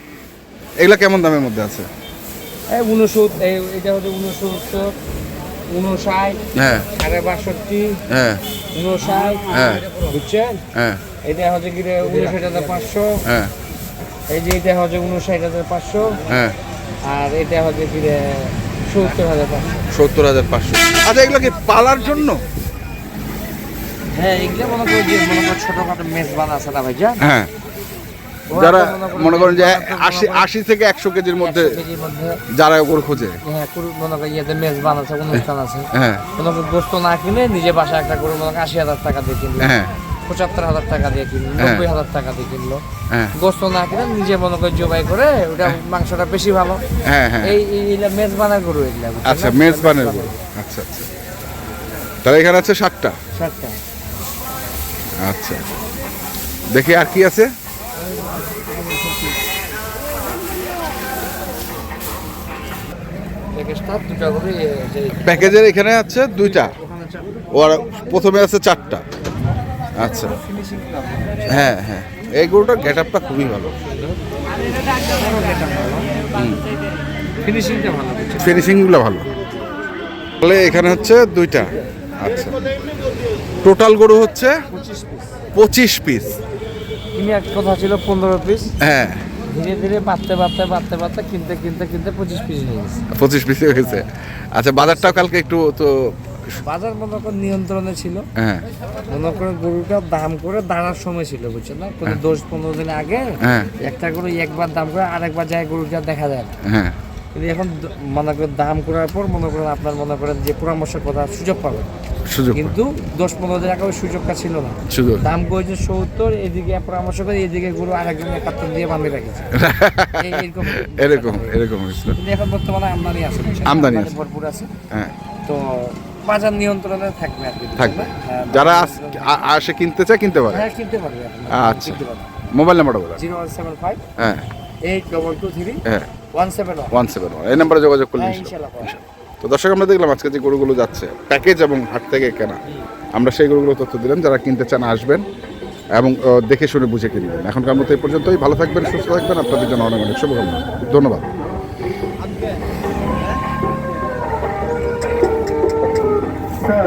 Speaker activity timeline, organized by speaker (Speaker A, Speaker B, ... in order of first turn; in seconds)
Speaker A: 0.8-1.9, 6.5-6.9, 8.1-8.4, 9.5-9.8, 10.7-11.0, 13.2-13.5, 16.3-16.6, 19.9-22.4, 27.2-27.5, 28.5-31.8, 32.5-33.4, 35.3-36.2, 39.6-39.9, 41.6-41.9, 47.0-47.6, 49.2-51.1, 52.2-53.1, 55.2-55.8, 56.7-57.5, 65.2-66.7, 67.5-69.0, 70.0-70.4, 71.5-73.8, 76.3-76.6, 78.4-79.3, 80.4-82.6, 83.6-84.5, 85.5-86.4, 88.8-89.2, 93.1-96.3, 98.3-98.6, 103.4-103.7, 106.6-106.9, 112.2-112.8, 114.9-115.3, 119.5-122.2, 123.6-124.1, 127.8-130.7, 131.5-133.2, 134.2-134.4, 136.9-142.6, 143.1-145.2, 145.9-151.3
Speaker B: 2.7-5.0, 5.7-8.0, 8.7-10.6, 11.2-13.2, 14.3-16.3, 17.0-19.9, 24.1-27.2, 28.5-30.5, 31.4-32.4, 33.2-39.7, 40.2-42.8, 43.3-46.8, 47.4-50.4, 53.3-53.8, 63.5-65.6, 66.6-67.1, 70.5-71.0, 75.0-76.2, 77.4-78.6, 84.7-85.4, 87.1-88.7, 89.4-93.0, 93.8-94.1, 94.8-95.4, 96.6-98.2, 99.0-106.5, 107.3-111.9, 112.5-119.5, 120.2-124.7, 125.5-129.4, 130.5-132.3, 133.2-134.0, 134.8-137.0, 138.1-139.0